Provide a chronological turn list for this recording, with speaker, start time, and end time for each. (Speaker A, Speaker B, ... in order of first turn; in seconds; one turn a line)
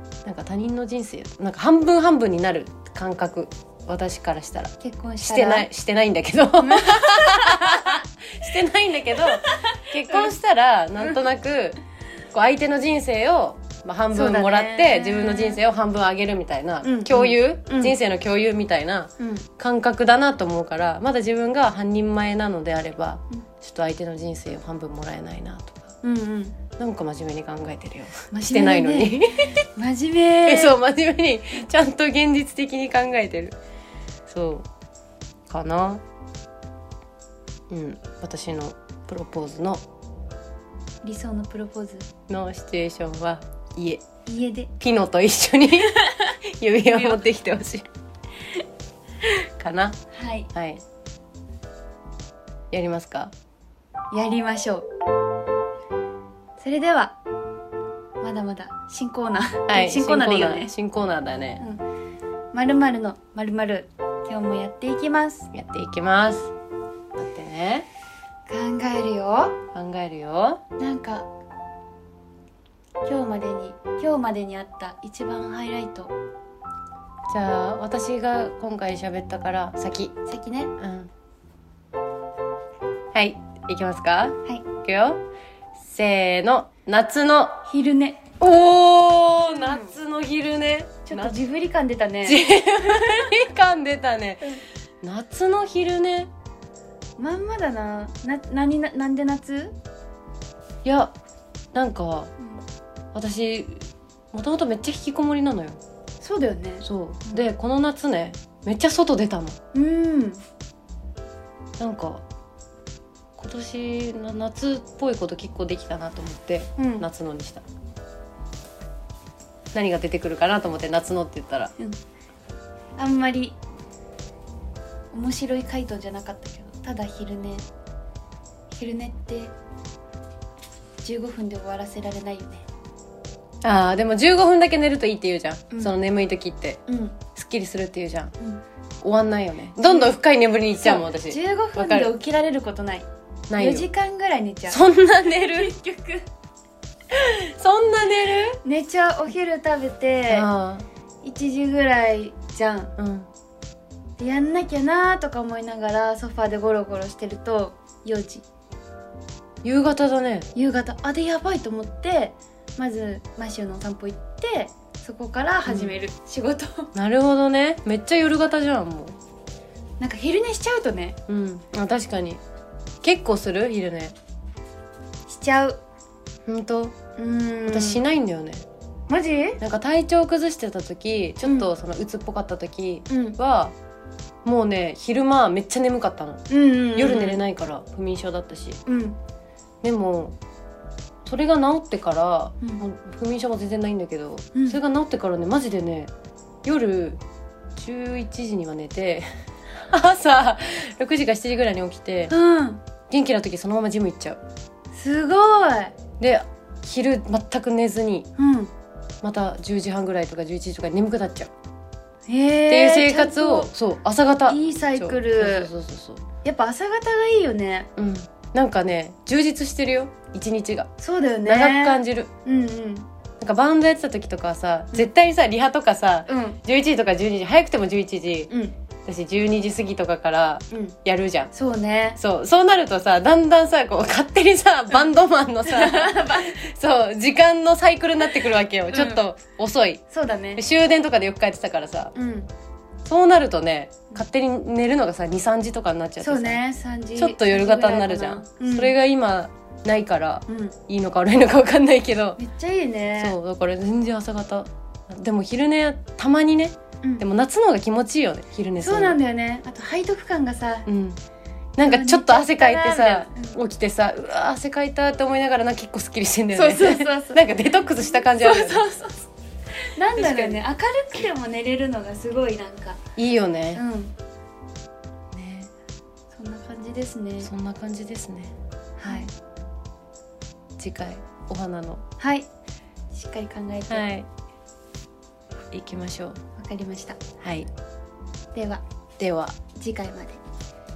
Speaker A: 0.2-11.8
Speaker B: 4.8-5.7
Speaker B: 6.6-8.0
Speaker B: 9.3-10.3
Speaker A: 12.3-25.9
Speaker B: 14.1-15.6
Speaker B: 16.8-18.0
Speaker B: 19.2-19.5
Speaker B: 26.0-26.6
Speaker A: 26.8-29.6
Speaker B: 28.3-30.8
Speaker A: 30.4-33.6
Speaker A: 34.3-34.7
Speaker A: 35.5-36.0
Speaker A: 37.7-39.8
Speaker B: 41.0-42.1
Speaker A: 42.3-44.0
Speaker B: 44.3-44.7
Speaker A: 44.8-47.9
Speaker B: 46.0-46.3
Speaker B: 46.9-47.2
Speaker A: 49.6-50.0
Speaker B: 50.1-50.5
Speaker A: 50.5-50.8
Speaker A: 52.7-53.3
Speaker B: 54.1-54.9
Speaker B: 56.6-57.2
Speaker B: 58.2-60.7
Speaker A: 59.7-61.6
Speaker B: 62.5-65.5
Speaker A: 65.5-66.5
Speaker A: 67.2-67.9
Speaker B: 68.5-69.6
Speaker A: 69.7-70.6
Speaker B: 70.8-71.3
Speaker B: 73.0-76.1
Speaker A: 77.3-80.2
Speaker B: 80.3-80.7
Speaker A: 80.8-81.1
Speaker A: 83.1-85.2
Speaker A: 85.8-87.6
Speaker B: 87.7-88.3
Speaker A: 88.4-91.4
Speaker B: 89.6-89.9
Speaker B: 91.1-92.5
Speaker A: 92.2-94.4
Speaker B: 93.0-93.3
Speaker A: 95.0-96.3
Speaker B: 97.2-99.7
Speaker A: 100.8-101.2
Speaker A: 101.7-102.3
Speaker A: 103.1-105.8
Speaker B: 106.2-107.5
Speaker A: 106.8-109.6
Speaker B: 109.7-110.4
Speaker A: 111.8-112.2
Speaker A: 113.4-117.6
Speaker B: 116.8-117.1
Speaker A: 119.7-121.7
Speaker B: 123.0-123.6
Speaker B: 125.1-127.7
Speaker B: 128.7-129.5
Speaker B: 131.0-132.7
Speaker A: 133.6-138.3
Speaker B: 136.9-137.2
Speaker A: 139.0-142.1
Speaker B: 139.8-140.2
Speaker B: 140.8-146.3
Speaker A: 143.5-143.9
Speaker A: 144.7-145.7
Speaker A: 147.1-148.6
Speaker B: 148.6-150.5
Speaker A: 150.3-150.9
Speaker B: 151.2-152.9
Speaker A: 153.0-153.3
Speaker B: 154.2-158.4
Speaker A: 159.6-160.5
Speaker B: 160.6-166.9
Speaker A: 165.7-165.9
Speaker A: 166.9-169.2
Speaker B: 170.0-171.2
Speaker A: 171.3-172.4
Speaker A: 173.0-174.2
Speaker B: 175.3-175.8
Speaker A: 176.5-177.0
Speaker B: 177.2-178.0
Speaker A: 177.7-178.7
Speaker B: 179.1-179.6
Speaker A: 179.6-183.8
Speaker B: 183.1-183.4
Speaker A: 184.4-186.4
Speaker B: 186.5-187.4
Speaker A: 186.9-188.8
Speaker B: 188.9-189.2
Speaker A: 189.8-190.4
Speaker A: 191.2-196.1
Speaker A: 196.6-197.2
Speaker A: 197.8-202.3
Speaker B: 202.3-202.8
Speaker A: 203.1-204.4
Speaker B: 204.9-205.9
Speaker A: 206.2-208.3
Speaker B: 208.4-208.7
Speaker A: 209.2-211.5
Speaker B: 212.3-213.7
Speaker A: 212.7-216.2
Speaker B: 214.5-215.7
Speaker B: 216.4-217.9
Speaker A: 218.0-220.9
Speaker B: 221.0-223.1
Speaker A: 221.5-222.3
Speaker A: 223.4-228.5
Speaker B: 226.3-226.6
Speaker B: 228.5-228.8
Speaker A: 229.1-231.5
Speaker B: 230.7-231.0
Speaker B: 231.5-232.2
Speaker A: 232.2-240.0
Speaker B: 235.7-236.6
Speaker B: 238.9-239.2
Speaker B: 240.1-240.6
Speaker A: 240.6-242.1
Speaker B: 242.2-242.5
Speaker A: 243.0-246.6
Speaker B: 246.2-248.9
Speaker A: 247.2-252.4
Speaker B: 250.5-250.8
Speaker B: 252.4-253.4
Speaker A: 253.2-259.2
Speaker B: 258.8-260.9
Speaker A: 260.9-261.2
Speaker A: 261.8-268.9
Speaker B: 261.8-263.6
Speaker B: 266.5-267.4
Speaker B: 268.1-269.3
Speaker B: 269.9-273.0
Speaker A: 270.2-270.6
Speaker A: 273.2-273.8
Speaker B: 273.7-274.1
Speaker A: 275.3-275.7
Speaker B: 276.3-277.5
Speaker A: 277.4-278.5
Speaker B: 279.0-279.3
Speaker A: 280.8-282.0
Speaker B: 282.2-282.5
Speaker B: 283.1-284.1
Speaker A: 283.9-284.3
Speaker A: 285.7-286.4
Speaker B: 286.6-287.2
Speaker A: 287.4-287.7
Speaker B: 288.5-288.8
Speaker A: 289.2-289.6
Speaker B: 289.8-290.4